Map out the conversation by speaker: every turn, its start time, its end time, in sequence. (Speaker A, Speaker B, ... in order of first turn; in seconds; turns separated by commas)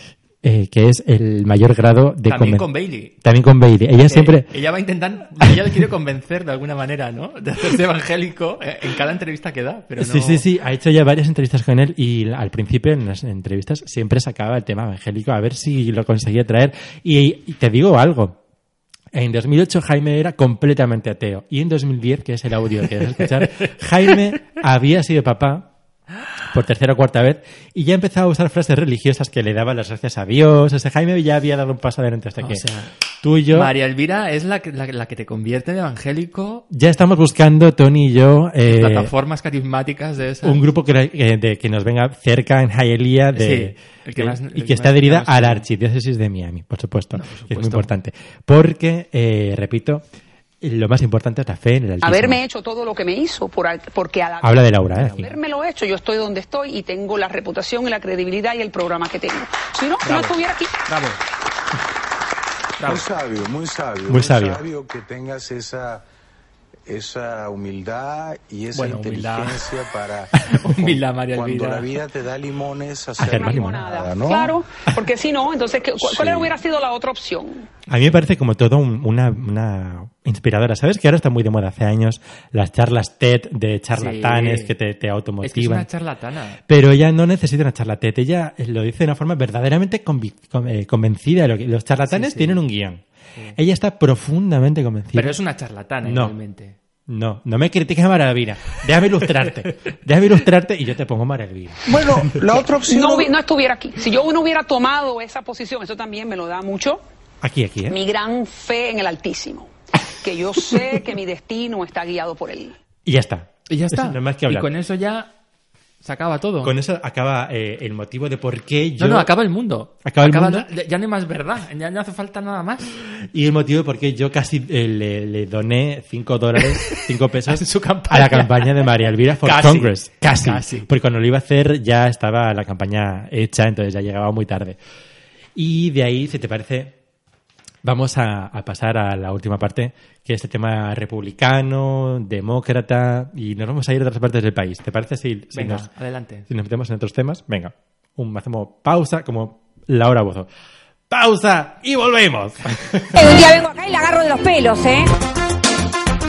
Speaker A: 0.4-2.7, Speaker B: 2.3-3.1, Speaker A: 3.2-4.5, Speaker B: 4.0-10.4, Speaker A: 10.0-18.4, Speaker A: 19.1-25.7, Speaker A: 26.5-32.6, Speaker B: 32.4-32.9, Speaker A: 33.2-33.7, Speaker B: 33.5-36.6, Speaker A: 36.7-39.1, Speaker B: 38.6-40.7, Speaker A: 40.4-50.0, Speaker B: 43.3-45.6, Speaker B: 47.1-47.9, Speaker A: 50.6-52.4, Speaker C: 52.0-60.8, Speaker A: 54.4-55.3, Speaker B: 60.0-61.2, Speaker B: 62.8-63.1, Speaker D: 62.8-66.0, Speaker A: 64.1-64.6, Speaker D: 66.8-74.6, Speaker B: 68.7-69.6, Speaker B: 70.4-72.0, Speaker A: 73.2-73.8, Speaker C: 73.2-77.7, Speaker D: 76.0-76.5, Speaker A: 77.9-85.9, Speaker B: 83.9-84.7, Speaker B: 85.4-86.6, Speaker A: 86.7-93.0, Speaker B: 92.0-92.6, Speaker A: 93.5-95.3, Speaker B: 95.1-96.8, Speaker A: 96.0-96.3, Speaker A: 97.1-102.3, Speaker D: 101.8-103.3, Speaker C: 102.8-107.0, Speaker A: 107.4-108.0, Speaker C: 107.9-112.7, Speaker A: 113.0-114.7, Speaker B: 113.7-115.3, Speaker B: 116.0-116.7, Speaker A: 116.6-119.3, Speaker B: 119.0-122.9, Speaker A: 120.0-120.7, Speaker A: 123.0-134.8, Speaker B: 126.6-130.9, Speaker A: 135.6-136.9, Speaker A: 137.8-145.9, Speaker B: 145.5-146.5, Speaker A: 146.5-150.5, Speaker A: 151.1-153.4, Speaker E: 153.2-155.2